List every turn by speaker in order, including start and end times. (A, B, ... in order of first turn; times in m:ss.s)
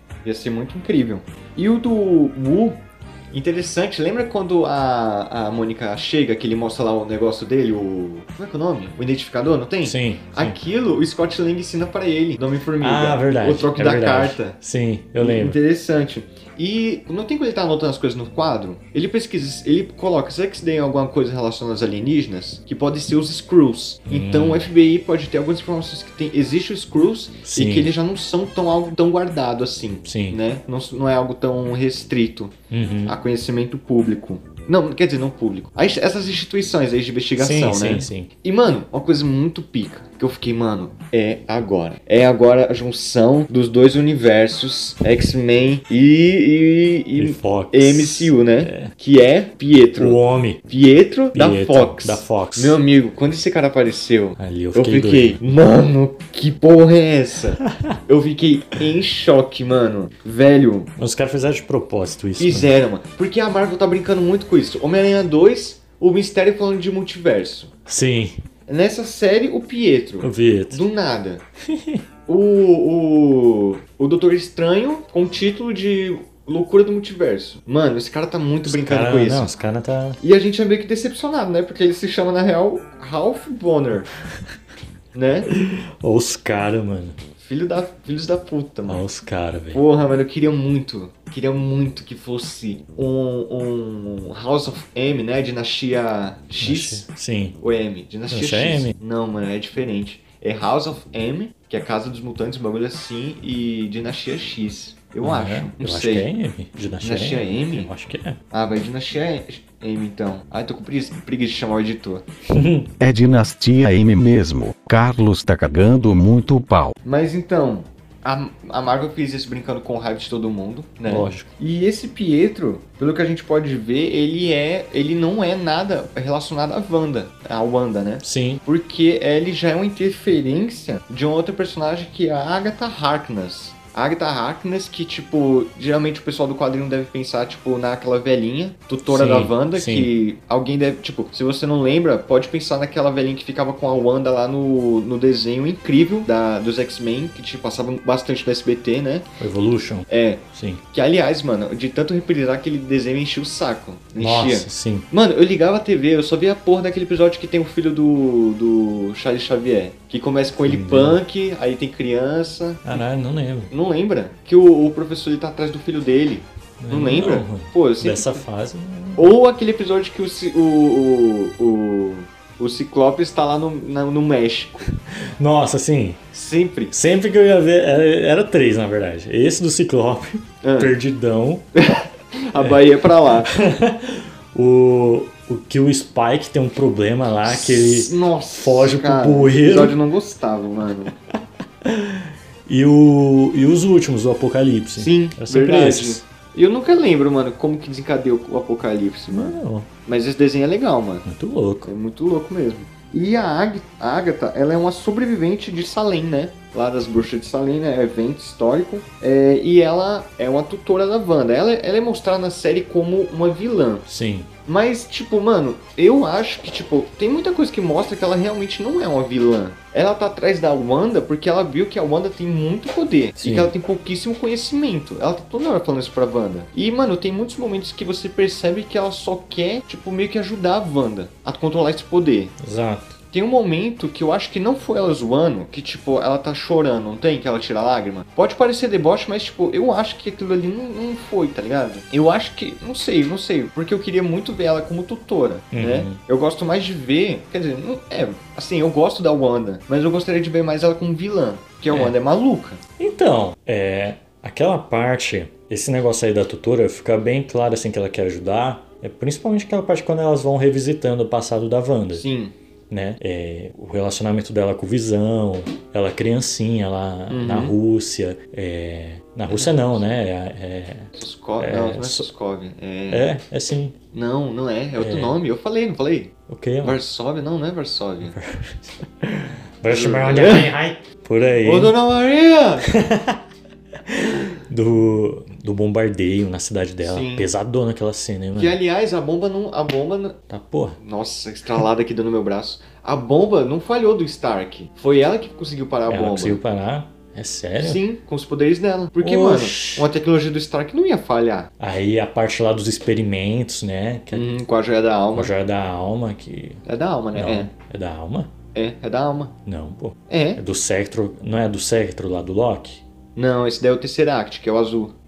0:00.2-0:14.6 A
0:09.8-0:10.6 B
0:12.8-0:15.6 B
0:15.2-0:32.5 A
0:24.1-0:24.7 B
0:27.4-0:27.9 B
0:30.0-0:30.4 B
0:32.7-0:33.2 B
0:33.0-1:00.9 A
0:37.4-0:38.3 B
0:47.2-0:48.9 B
0:50.0-0:50.6 B
0:51.3-0:52.8 B
0:54.4-0:55.4 B
1:01.0-1:02.7 B
1:02.4-1:07.7 A
1:07.9-1:08.4 B
1:08.7-1:11.4 A
1:10.2-1:10.8 B
1:11.7-1:12.0 B
1:12.3-1:19.5 A
1:18.6-1:20.2 B
1:20.2-1:24.1 A
1:25.1-1:25.5 A
1:25.5-1:27.2 B
1:27.4-1:29.0 A
1:28.9-1:29.8 B
1:29.7-1:37.0 A
1:36.6-1:37.6 B
1:37.6-1:46.3 A
1:38.3-1:39.0 B
1:45.2-1:48.4 B
1:47.0-1:47.9 A
1:48.5-1:52.2 A
1:52.5-1:52.9 B
1:53.0-1:56.9 C
1:57.0-2:29.3 A
2:01.0-2:01.5 B
2:08.2-2:08.6 B
2:19.0-2:20.1 B
2:29.4-2:30.8 B
2:30.1-2:43.0 A
2:34.2-2:35.1 B
2:40.6-2:41.2 B
2:42.8-2:43.7 B
2:43.7-2:48.4 A
2:46.8-2:49.3 B
2:49.2-2:54.9 A
2:55.4-2:56.2 B
2:56.3-2:56.9 A
2:56.9-3:01.7 B
3:00.6-3:00.9 A
3:01.8-3:03.5 A
3:02.5-3:10.0 B
3:07.4-3:11.1 A
3:11.1-3:16.2 B
3:15.0-3:21.2 A
3:19.3-3:19.9 B
3:21.2-3:21.9 B
3:21.8-3:34.0 A
3:34.1-3:34.5 B
3:34.6-3:52.5 A
3:43.4-3:43.7 B
3:52.6-3:53.1 B
3:53.3-4:12.8 A
4:05.7-4:06.2 B
4:13.0-4:22.2 B
4:22.1-4:22.5 A
4:22.9-4:32.3 B
4:27.3-4:27.7 A
4:29.5-4:30.1 A
4:31.1-4:33.3 A
4:33.1-4:34.0 B
4:34.1-4:38.4 A
4:35.0-4:35.4 B
4:36.5-4:37.0 B
4:38.2-4:42.0 B
4:39.9-4:40.7 A
4:41.6-4:42.9 A
4:42.8-4:43.4 B
4:44.1-4:48.8 B
4:47.0-4:47.5 A
4:48.6-4:50.4 A
4:50.5-4:51.0 B
4:51.0-4:56.6 A
4:56.1-4:58.0 B
4:57.8-5:01.7 A
4:59.2-5:00.1 B
5:01.8-5:04.5 B
5:04.3-5:05.5 A
5:05.3-5:08.5 B
5:06.8-5:07.7 A
5:08.7-5:09.5 A
5:09.6-5:13.0 B
5:10.3-5:10.6 A
5:13.4-5:15.1 A